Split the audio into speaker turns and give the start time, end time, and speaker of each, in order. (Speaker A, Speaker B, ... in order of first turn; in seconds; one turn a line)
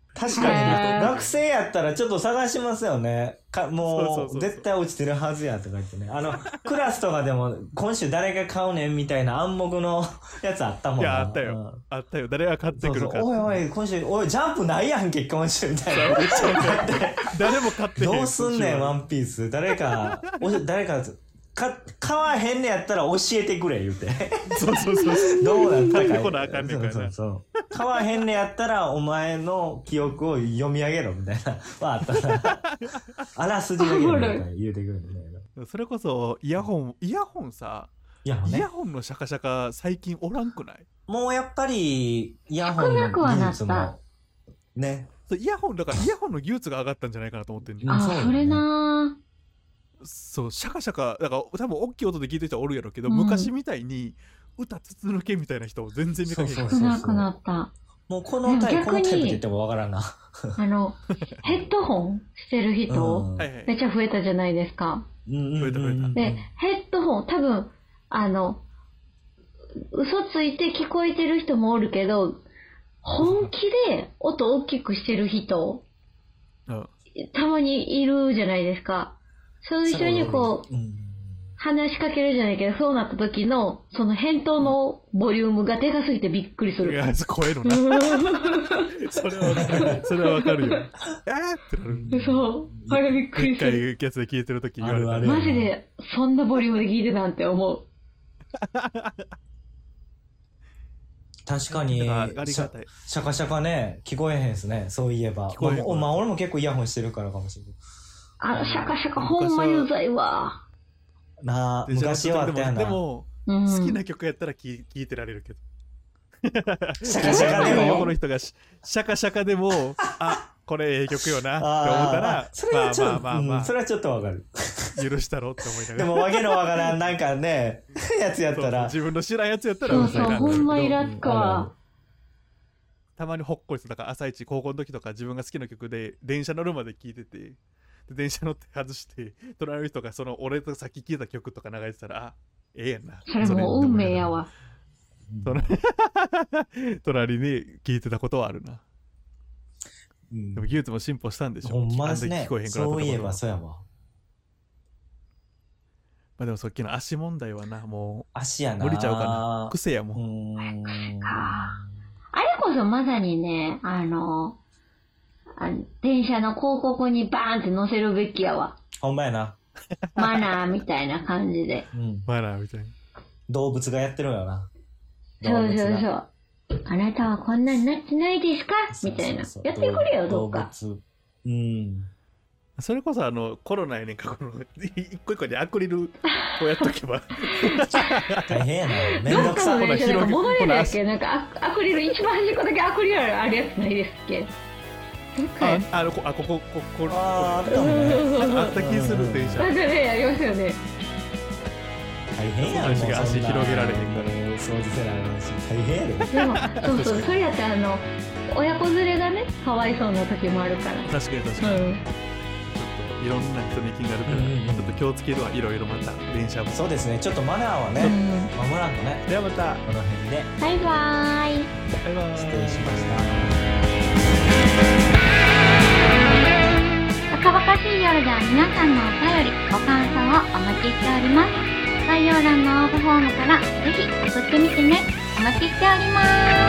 Speaker A: 0.1-11.8
Speaker B: 0.3-1.4
Speaker C: 0.3-1.1
Speaker B: 3.8-4.7
Speaker B: 6.5-6.8
Speaker B: 11.0-13.6
Speaker A: 12.8-17.3
Speaker B: 15.9-19.0
Speaker A: 17.9-32.6
Speaker B: 19.8-20.1
Speaker B: 24.5-27.1
Speaker C: 25.2-26.1
Speaker B: 27.8-28.1
Speaker B: 32.3-33.2
Speaker A: 33.3-35.4
Speaker C: 33.8-34.5
Speaker B: 35.6-37.9
Speaker A: 38.2-38.7
Speaker B: 38.4-40.9
Speaker A: 41.1-44.0
Speaker C: 42.6-43.9
Speaker A: 44.7-45.1
Speaker B: 45.3-48.0
Speaker A: 47.8-48.6
Speaker C: 47.9-49.2
Speaker B: 50.0-56.9
Speaker C: 53.1-53.5
Speaker A: 56.2-57.3
Speaker C: 56.6-57.7
Speaker A: 58.1-60.6
Speaker C: 58.5-59.4
Speaker C: 60.6-65.0
Speaker A: 62.9-63.5
Speaker B: 63.4-63.7
Speaker A: 65.2-66.5
Speaker B: 65.6-66.2
Speaker C: 66.1-68.6
Speaker C: 69.9-72.4
Speaker C: 73.0-75.8
Speaker C: 77.3-80.7
Speaker A: 79.8-81.5
Speaker C: 81.6-87.0
Speaker B: 86.8-92.1
Speaker C: 87.6-88.9
Speaker A: 89.5-89.9
Speaker C: 89.8-90.8
Speaker A: 91.8-93.2
Speaker C: 92.1-93.8
Speaker B: 93.3-95.4
Speaker A: 94.8-95.7
Speaker C: 95.2-97.9
Speaker B: 98.5-99.3
Speaker A: 101.5-107.8
Speaker B: 101.7-102.9
Speaker B: 105.5-106.2
Speaker C: 108.4-110.6
Speaker B: 108.5-109.9
Speaker A: 111.4-113.0
Speaker B: 111.8-115.6
Speaker C: 113.5-114.0
Speaker B: 116.4-123.7
Speaker A: 117.0-118.1
Speaker C: 117.2-118.1
Speaker A: 121.6-125.0
Speaker B: 125.0-127.0
Speaker A: 125.9-128.9
Speaker B: 128.5-131.0
Speaker A: 129.8-131.7
Speaker C: 129.8-131.7
Speaker B: 133.2-144.4
Speaker C: 143.2-144.5
Speaker A: 143.4-143.7
Speaker A: 145.3-145.6
Speaker B: 145.4-148.8
Speaker A: 150.3-150.7
Speaker B: 150.6-153.4
Speaker A: 151.6-153.8
Speaker B: 156.4-158.3
Speaker A: 158.3-161.8
Speaker B: 158.8-160.2
Speaker C: 160.7-161.7
Speaker C: 162.3-164.6
Speaker C: 165.6-168.8
Speaker A: 169.0-169.6
Speaker B: 170.1-170.4
Speaker C: 170.2-171.8
Speaker A: 171.9-172.3
Speaker B: 172.2-172.9
Speaker A: 173.5-174.7
Speaker A: 175.4-176.1
Speaker C: 175.4-176.3
Speaker C: 176.8-180.7
Speaker A: 178.9-182.1
Speaker B: 182.8-188.6
Speaker C: 186.3-186.9
Speaker C: 187.7-188.0
Speaker A: 188.5-190.0
Speaker B: 189.2-191.0
Speaker C: 189.3-194.5
Speaker C: 195.3-195.8
Speaker B: 195.6-199.7
Speaker A: 197.1-199.7
Speaker C: 197.7-198.7
Speaker C: 199.6-200.8
Speaker A: 202.3-206.3
Speaker B: 202.6-204.3
Speaker C: 206.3-212.0
Speaker B: 206.4-207.3
Speaker B: 211.1-211.9
Speaker B: 212.7-216.8
Speaker A: 214.2-215.0
Speaker A: 216.7-219.3
Speaker C: 218.0-218.5
Speaker B: 219.3-219.8
Speaker A: 219.8-220.5
Speaker C: 220.6-221.7
Speaker B: 222.0-223.5
Speaker A: 222.3-223.6
Speaker C: 227.3-231.4
Speaker D: 227.4-229.7
Speaker D: 230.2-231.5
Speaker D: 232.1-236.5
Speaker C: 232.1-232.5
Speaker C: 233.4-234.1
Speaker C: 235.9-236.3